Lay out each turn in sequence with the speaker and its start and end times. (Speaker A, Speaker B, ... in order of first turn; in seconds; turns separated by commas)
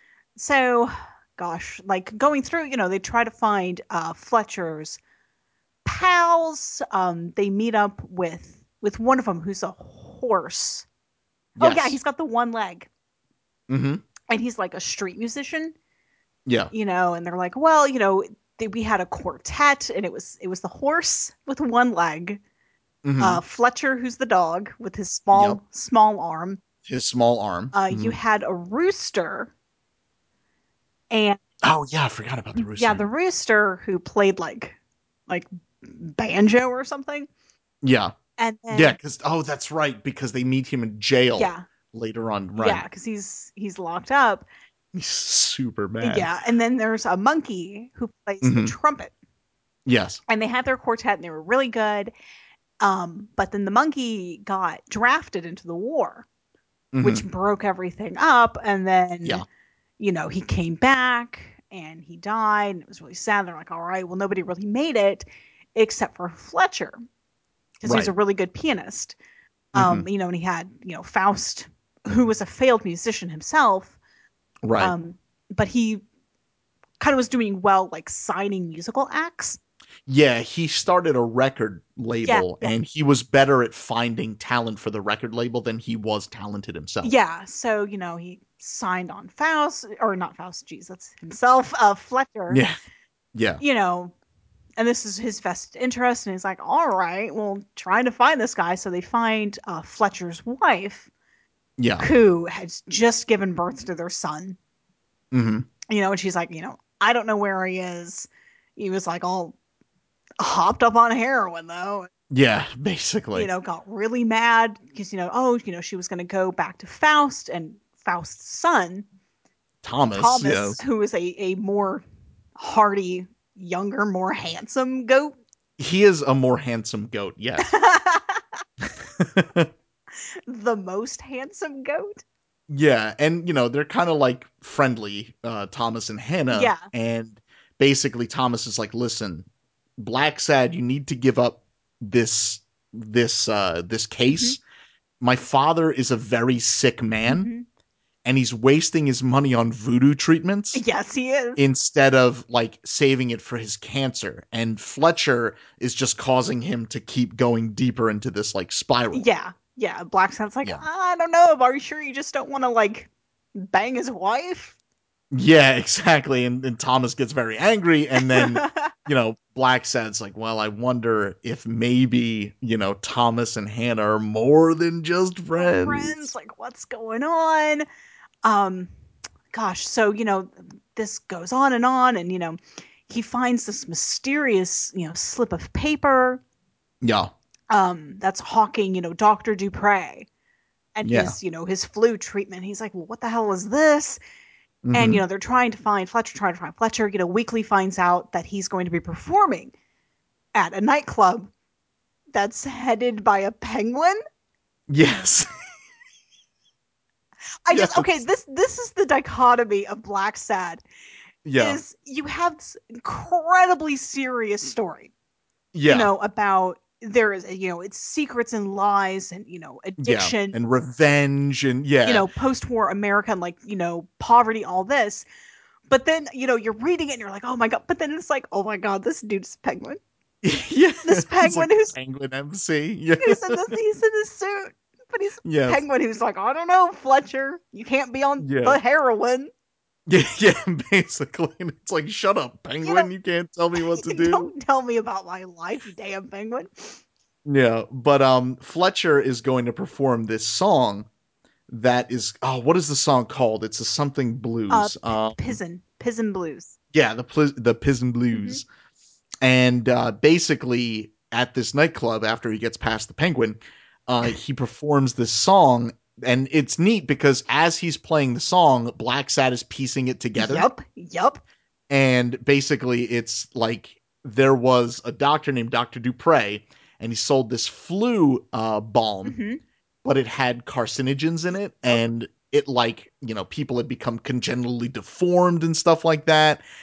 Speaker A: 0.4-5.0, Speaker A: 5.8-10.9, Speaker B: 11.6-12.0, Speaker A: 11.6-12.9, Speaker B: 13.7-14.0, Speaker A: 14.3-15.7, Speaker B: 16.5-16.7, Speaker A: 16.7-22.4, Speaker B: 23.0-23.4, Speaker A: 23.2-26.6, Speaker B: 25.3-25.6, Speaker B: 26.9-28.2, Speaker A: 27.7-29.5, Speaker A: 31.1-31.4, Speaker B: 31.6-33.0, Speaker A: 32.6-34.8, Speaker A: 35.3-37.3, Speaker B: 37.8-38.1, Speaker A: 38.4-39.0, Speaker B: 38.7-42.8, Speaker A: 41.4-41.6, Speaker A: 42.6-44.5, Speaker B: 44.9-46.3, Speaker A: 46.0-49.1, Speaker B: 48.4-48.7, Speaker B: 49.9-50.2, Speaker A: 50.3-52.1, Speaker A: 52.8-56.3, Speaker B: 56.9-57.2, Speaker A: 57.0-59.4, Speaker A: 60.0-67.0, Speaker A: 67.8-69.2, Speaker B: 67.8-68.1, Speaker B: 69.8-70.1, Speaker A: 69.8-74.0, Speaker B: 74.6-74.9, Speaker A: 74.8-76.0, Speaker A: 77.0-79.6, Speaker B: 80.1-87.1, Speaker A: 82.2-82.8, Speaker A: 87.0-92.6, Speaker B: 92.5-92.8, Speaker B: 93.3-93.6, Speaker A: 93.6-94.1, Speaker A: 94.8-101.1, Speaker B: 101.8-102.1, Speaker A: 102.0-104.6, Speaker B: 105.3-105.7, Speaker A: 105.9-109.6, Speaker A: 110.4-112.1, Speaker B: 112.3-113.5, Speaker A: 113.3-119.1, Speaker B: 119.8-120.8, Speaker A: 120.2-122.0, Speaker A: 122.6-125.4, Speaker B: 125.8-127.7, Speaker A: 127.6-128.4, Speaker B: 128.8-129.7, Speaker A: 130.5-132.2, Speaker B: 132.7-139.5, Speaker A: 136.5-136.9, Speaker B: 140.0-144.6, Speaker A: 144.3-144.6, Speaker B: 145.2-147.5, Speaker A: 147.3-147.6, Speaker B: 148.2-150.8, Speaker A: 150.8-151.6, Speaker B: 151.6-159.3, Speaker A: 159.1-164.8, Speaker B: 165.3-176.3, Speaker A: 168.2-168.9, Speaker A: 175.6-177.8, Speaker A: 178.4-178.9, Speaker A: 179.5-186.4, Speaker B: 187.0-187.3, Speaker A: 187.7-190.3, Speaker A: 191.0-194.2, Speaker B: 191.1-191.4, Speaker B: 194.8-195.2, Speaker A: 194.9-199.7, Speaker A: 200.6-201.5, Speaker A: 202.3-204.2, Speaker B: 204.9-205.5, Speaker A: 207.7-210.8, Speaker B: 207.7-208.2, Speaker B: 211.4-211.8, Speaker A: 211.6-215.1, Speaker B: 215.7-216.1, Speaker A: 215.9-220.6, Speaker B: 220.0-222.3, Speaker A: 222.1-225.3, Speaker A: 225.9-230.0, Speaker B: 230.4-233.6, Speaker A: 231.0-231.9, Speaker A: 233.2-239.5, Speaker B: 235.4-235.8, Speaker B: 238.4-238.8, Speaker B: 240.1-244.5, Speaker A: 242.8-243.1, Speaker A: 243.8-247.0, Speaker B: 247.5-251.1, Speaker B: 251.7-255.6, Speaker A: 254.7-256.8, Speaker B: 256.9-258.7, Speaker A: 258.3-258.6, Speaker B: 259.4-270.7, Speaker A: 270.4-271.4, Speaker B: 271.9-279.4, Speaker A: 279.2-279.6, Speaker B: 280.0-286.6